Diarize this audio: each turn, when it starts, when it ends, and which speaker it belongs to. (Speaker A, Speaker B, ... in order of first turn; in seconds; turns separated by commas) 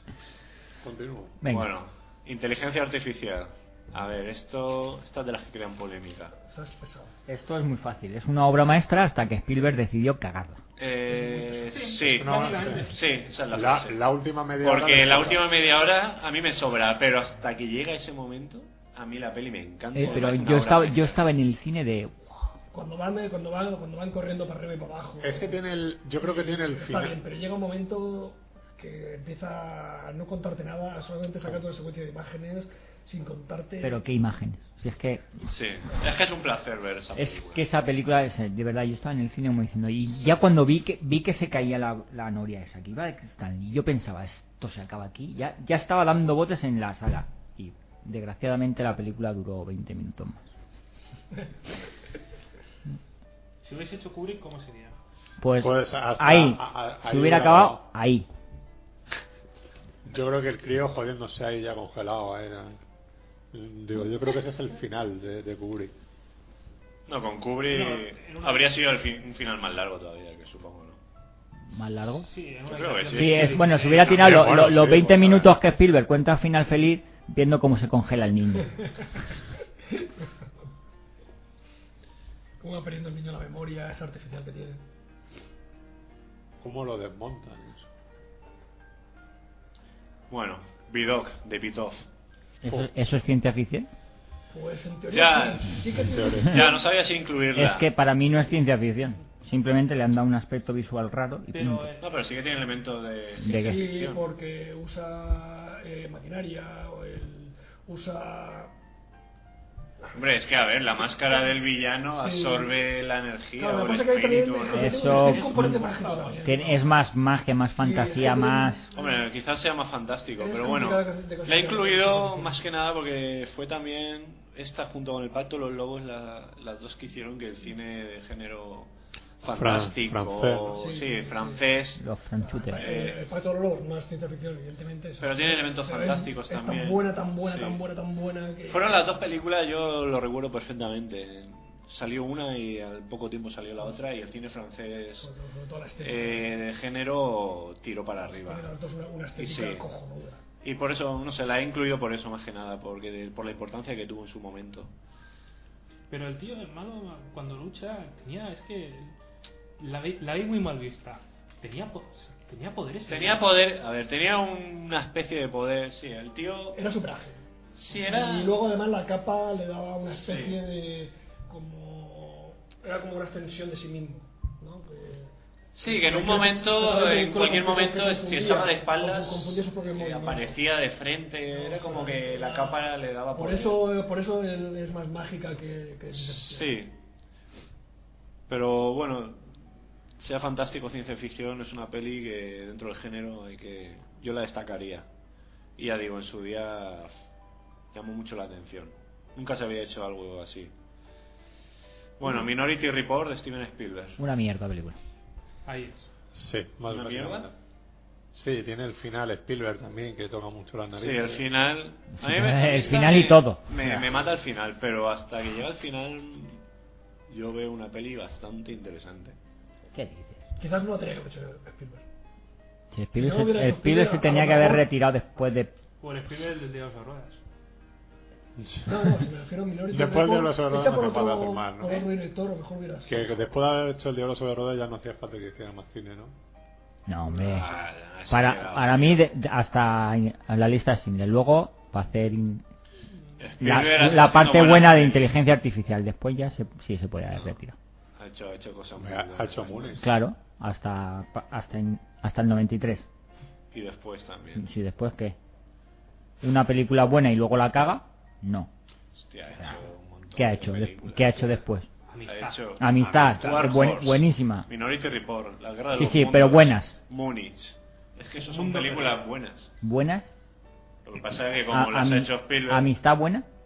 Speaker A: 0.8-1.4, Speaker B: 1.4-1.7, Speaker C: 1.5-6.3, Speaker D: 6.4-7.1, Speaker B: 7.3-10.6, Speaker C: 10.8-14.0, Speaker E: 11.5-12.9, Speaker A: 12.0-12.9, Speaker A: 13.5-15.4, Speaker C: 14.6-21.2, Speaker B: 19.9-22.5, Speaker D: 22.7-25.6, Speaker A: 25.2-27.2, Speaker D: 26.2-34.0, Speaker B: 33.8-35.3, Speaker C: 35.4-37.6, Speaker B: 37.1-50.5, Speaker E: 53.6-55.0, Speaker B: 55.4-58.2, Speaker A: 55.6-57.8, Speaker A: 60.0-62.8, Speaker A: 63.5-65.9, Speaker C: 67.1-71.0, Speaker E: 67.7-68.8, Speaker B: 71.7-72.3, Speaker E: 72.3-74.2, Speaker C: 72.7-74.4, Speaker B: 73.1-78.8, Speaker A: 74.2-75.5, Speaker D: 82.6-84.8, Speaker A: 86.6-87.9, Speaker C: 90.3-92.0, Speaker B: 92.6-93.9, Speaker A: 92.6-92.9, Speaker D: 94.5-96.8, Speaker C: 95.1-95.8, Speaker A: 96.0-96.6, Speaker C: 96.4-97.9, Speaker B: 97.5-101.9, Speaker E: 101.5-102.0, Speaker C: 102.0-104.2, Speaker B: 103.4-103.8, Speaker D: 103.5-108.7, Speaker C: 110.1-115.5, Speaker D: 112.1-112.7, Speaker D: 113.5-116.8, Speaker B: 114.7-115.8, Speaker E: 115.4-116.6, Speaker B: 116.4-118.8, Speaker D: 117.8-119.2, Speaker C: 118.9-132.0, Speaker D: 120.4-122.6, Speaker A: 129.5-130.7, Speaker D: 130.7-131.6, Speaker B: 132.0-132.9, Speaker D: 132.4-139.0, Speaker C: 132.7-133.2, Speaker C: 135.2-137.8, Speaker C: 138.7-145.3, Speaker D: 145.2-146.6, Speaker C: 146.0-148.7, Speaker D: 148.4-150.4, Speaker C: 149.4-149.8, Speaker C: 150.6-154.9, Speaker E: 156.1-159.1, Speaker E: 159.8-163.4, Speaker C: 163.1-166.8, Speaker D: 166.7-175.3, Speaker C: 167.7-168.5, Speaker C: 170.1-170.6, Speaker C: 175.7-183.8, Speaker D: 175.8-180.6, Speaker D: 181.5-186.8, Speaker C: 186.1-186.9, Speaker C: 188.5-189.6, Speaker C: 190.2-195.1, Speaker C: 195.8-197.1, Speaker C: 197.9-200.7, Speaker C: 202.2-204.2, Speaker B: 204.2-205.0, Speaker E: 205.7-206.1, Speaker A: 206.3-207.5, Speaker C: 206.9-207.5, Speaker A: 208.3-211.4, Speaker C: 210.9-216.6, Speaker B: 212.2-214.0, Speaker C: 217.3-219.3, Speaker B: 219.9-220.4, Speaker D: 220.6-222.0, Speaker B: 222.9-225.7, Speaker D: 223.1-224.9, Speaker E: 226.0-227.4, Speaker A: 228.6-229.1, Speaker D: 228.8-233.3, Speaker A: 229.9-232.0, Speaker A: 233.1-236.3, Speaker B: 237.1-237.7, Speaker C: 237.4-239.3, Speaker B: 238.3-242.6, Speaker C: 243.4-245.3, Speaker B: 243.6-247.8, Speaker C: 248.2-250.0, Speaker A: 249.0-250.1, Speaker B: 250.0-253.1, Speaker C: 253.7-254.7, Speaker B: 254.6-255.3, Speaker B: 256.4-258.7, Speaker C: 259.1-261.6, Speaker B: 259.5-259.8, Speaker B: 260.4-261.9, Speaker E: 262.1-262.6, Speaker C: 262.2-269.7, Speaker B: 262.8-264.7, Speaker A: 263.0-263.6, Speaker B: 265.9-266.9, Speaker E: 268.4-269.2, Speaker B: 269.8-270.3, Speaker C: 271.0-272.9, Speaker B: 271.6-273.4